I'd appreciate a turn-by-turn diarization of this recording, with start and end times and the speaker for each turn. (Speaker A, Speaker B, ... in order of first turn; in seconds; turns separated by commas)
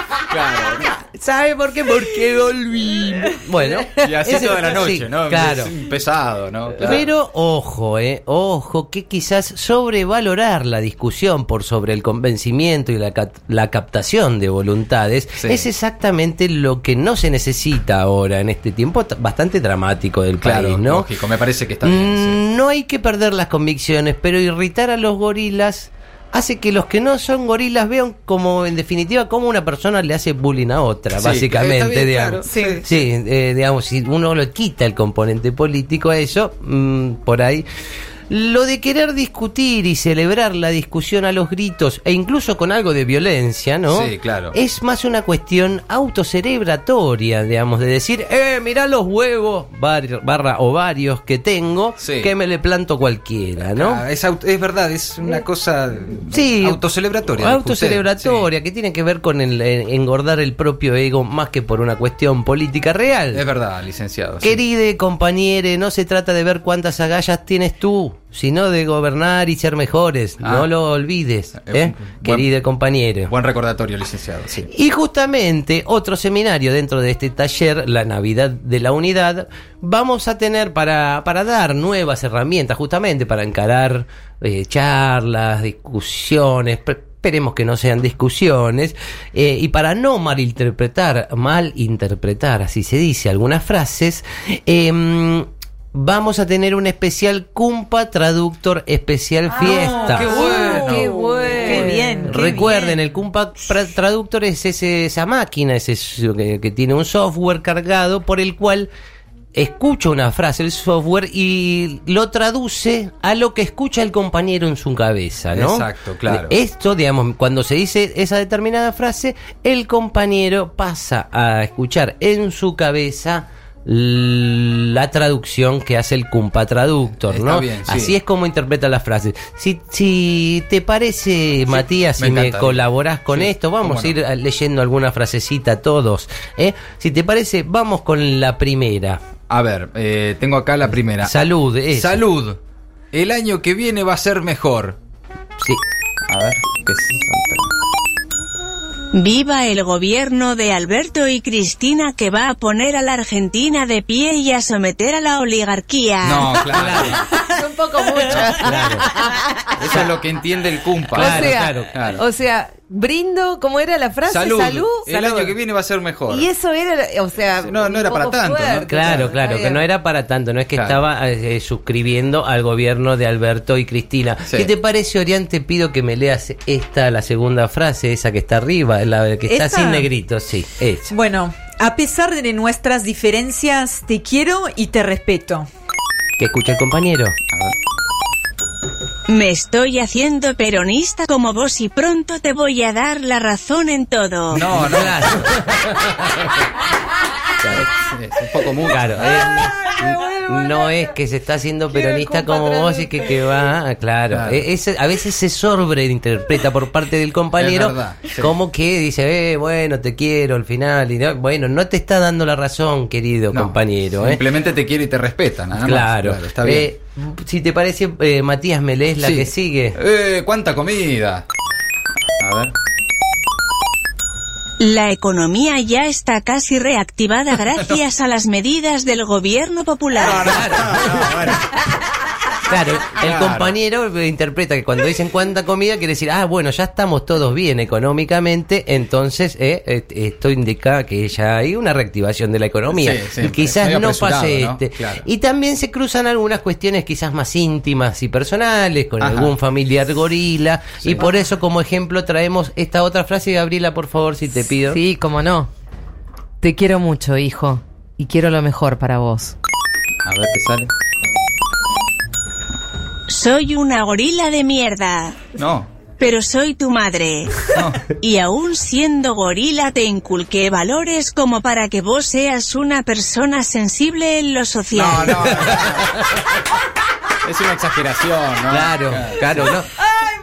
Speaker A: 0.3-1.0, Speaker B: 0.8-5.7, Speaker A: 4.0-7.1, Speaker B: 6.8-21.1, Speaker A: 15.4-15.7, Speaker A: 20.4-22.4, Speaker B: 21.8-37.7, Speaker A: 31.1-32.9, Speaker C: 32.4-32.8, Speaker B: 38.3-54.0, Speaker A: 43.9-44.5, Speaker A: 52.0-52.3, Speaker A: 53.7-58.5, Speaker B: 56.3-63.4, Speaker A: 63.3-64.6, Speaker B: 64.4-73.3, Speaker A: 70.4-70.7, Speaker A: 71.6-72.5, Speaker A: 73.3-74.7, Speaker B: 74.7-100.5, Speaker A: 99.7-101.1, Speaker C: 99.8-103.0, Speaker D: 100.2-102.3, Speaker B: 101.6-108.9, Speaker B: 109.5-139.2, Speaker A: 115.5-116.5, Speaker A: 127.2-128.2, Speaker A: 131.7-134.1, Speaker A: 139.5-142.6, Speaker B: 141.2-142.2, Speaker A: 143.1-145.0, Speaker A: 146.3-147.7, Speaker E: 149.1-156.6, Speaker A: 156.2-157.3, Speaker B: 156.6-157.2, Speaker D: 157.0-160.1, Speaker A: 158.3-158.7, Speaker B: 158.4-159.1, Speaker A: 159.8-162.2, Speaker B: 161.2-162.0, Speaker D: 161.2-165.1, Speaker A: 164.3-166.5, Speaker B: 165.1-165.5, Speaker D: 166.3-169.8, Speaker A: 167.7-169.3, Speaker B: 168.9-181.1, Speaker C: 179.5-180.1, Speaker C: 181.1-185.7, Speaker B: 186.4-187.3, Speaker E: 189.3-194.7, Speaker A: 194.5-195.6, Speaker B: 194.5-196.6, Speaker A: 197.6-199.5, Speaker B: 198.9-214.4, Speaker D: 202.3-202.6, Speaker A: 204.3-204.6, Speaker A: 207.6-208.5, Speaker A: 213.5-216.9, Speaker B: 215.8-220.0, Speaker A: 219.2-221.4, Speaker A: 222.4-222.7, Speaker E: 224.8-230.8, Speaker A: 230.1-231.9, Speaker B: 230.3-231.5, Speaker B: 232.7-255.0, Speaker A: 233.1-233.7, Speaker A: 242.9-245.2, Speaker A: 249.2-249.6, Speaker A: 251.0-251.3, Speaker D: 254.8-255.7, Speaker D: 256.6-259.6, Speaker A: 260.2-260.9, Speaker E: 263.3-265.4, Speaker A: 265.6-265.9, Speaker E: 266.2-275.6, Speaker A: 267.7-268.1, Speaker A: 274.9-276.3, Speaker B: 275.4-276.4, Speaker A: 277.4-279.7, Speaker B: 278.7-279.9